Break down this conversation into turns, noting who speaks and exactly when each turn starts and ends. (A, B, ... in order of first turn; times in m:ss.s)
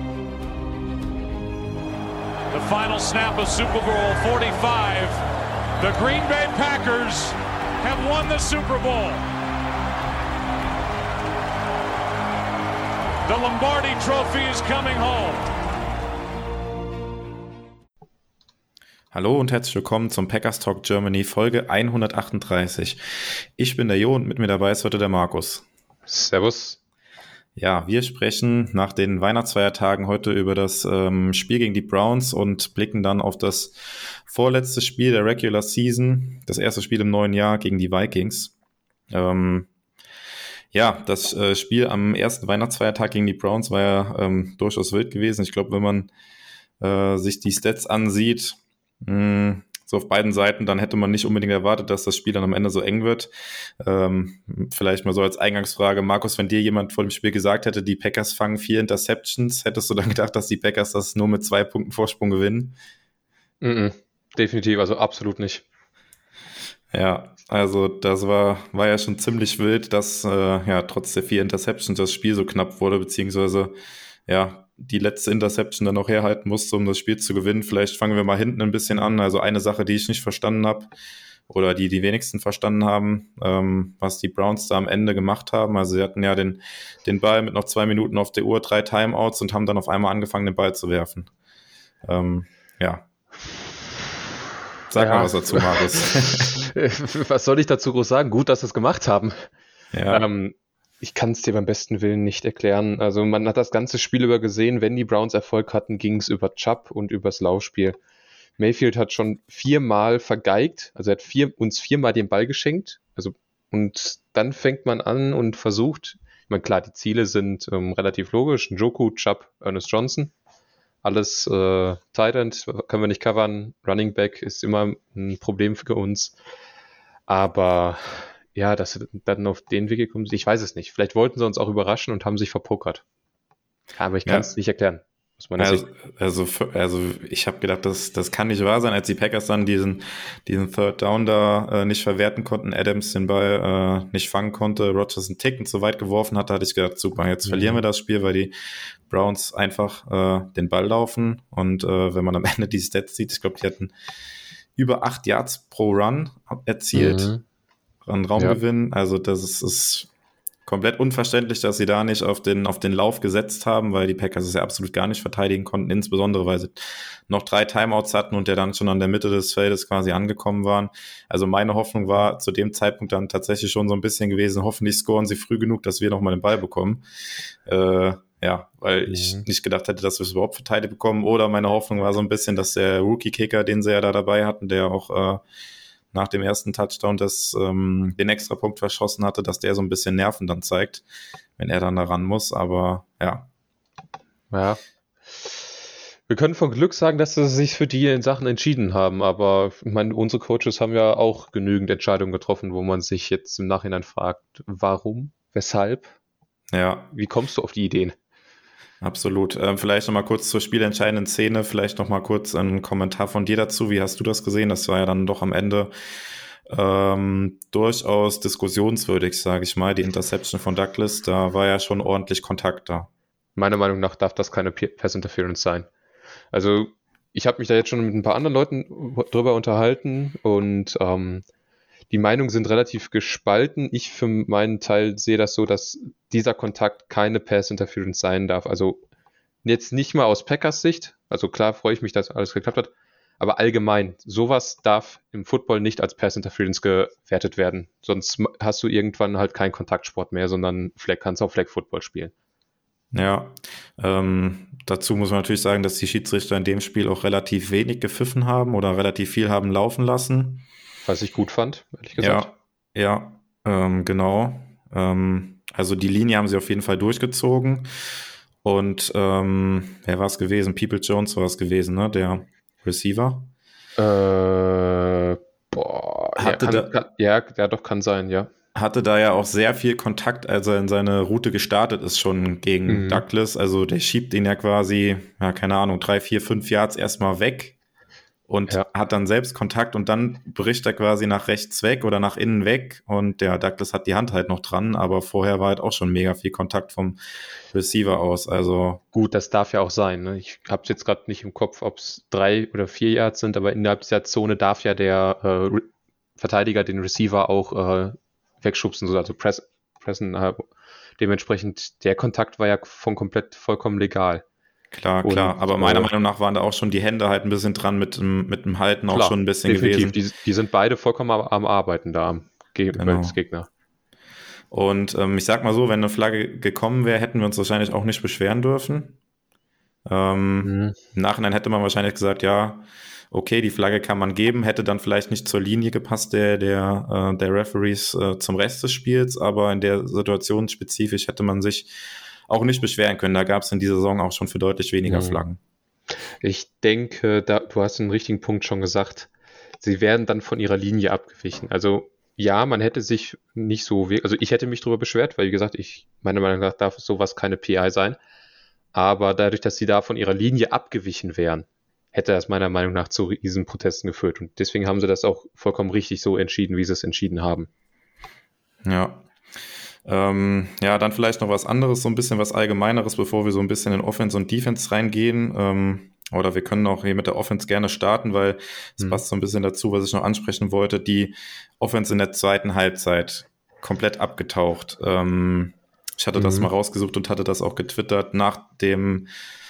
0:02.5-0:05.2 A
0:05.8-0:09.2 A
0:13.3-0:15.4 A
0:19.1-0:25.6 B
0:26.1-0:26.8 C
0:27.6-0:38.5 B
0:39.1-0:39.7 B
0:40.7-0:46.1 B
0:46.8-1:02.8 B
1:03.6-1:05.6 C
1:06.9-1:13.8 B
1:14.3-1:20.9 B
1:21.5-1:31.3 B
1:32.0-1:33.0 B
1:34.9-1:36.6 B
1:35.0-1:39.5 C
1:39.9-1:40.2 B
1:40.1-1:48.0 C
1:48.6-2:00.3 C
2:01.0-2:06.4 C
2:07.3-2:13.0 C
2:14.0-2:15.8 C
2:15.6-2:28.5 B
2:27.4-2:27.8 C
2:29.1-2:33.9 B
2:34.8-2:37.3 B
2:36.9-2:37.4 C
2:38.0-2:40.1 B
2:40.6-2:57.0 B
2:57.6-3:05.4 B
2:59.1-2:59.4 C
3:06.1-3:11.0 B
3:11.6-3:13.5 B
3:14.5-3:14.8 C
3:15.3-3:15.6 C
3:16.3-3:26.1 C
3:26.7-3:27.1 B
3:27.1-3:28.2 C
3:29.0-3:35.9 B
3:36.7-3:43.1 B
3:43.6-3:45.9 C
3:46.5-3:51.4 C
3:52.1-3:59.0 C
3:59.6-4:12.3 C
4:13.1-4:20.6 B
4:21.0-4:22.5 C
4:22.2-4:27.9 B
4:28.6-4:33.5 B
4:34.0-4:38.5 C
4:36.4-4:36.9 B
4:38.7-4:47.7 B
4:42.8-4:43.2 C
4:48.5-4:57.2 B
4:57.7-4:59.0 B
4:59.1-5:05.8 C
5:06.4-5:10.7 C
5:11.2-5:14.4 C
5:14.9-5:20.2 B
5:15.2-5:16.1 C
5:19.1-5:23.7 C
5:23.0-5:23.4 B
5:24.7-5:29.2 B
5:30.0-5:45.6 B
5:30.6-5:31.0 C
5:45.0-5:45.4 C
5:46.4-5:49.3 C
5:49.8-5:58.2 C
5:58.9-6:07.7 C
6:08.8-6:09.2 B
6:10.0-6:29.3 B
6:26.3-6:26.7 C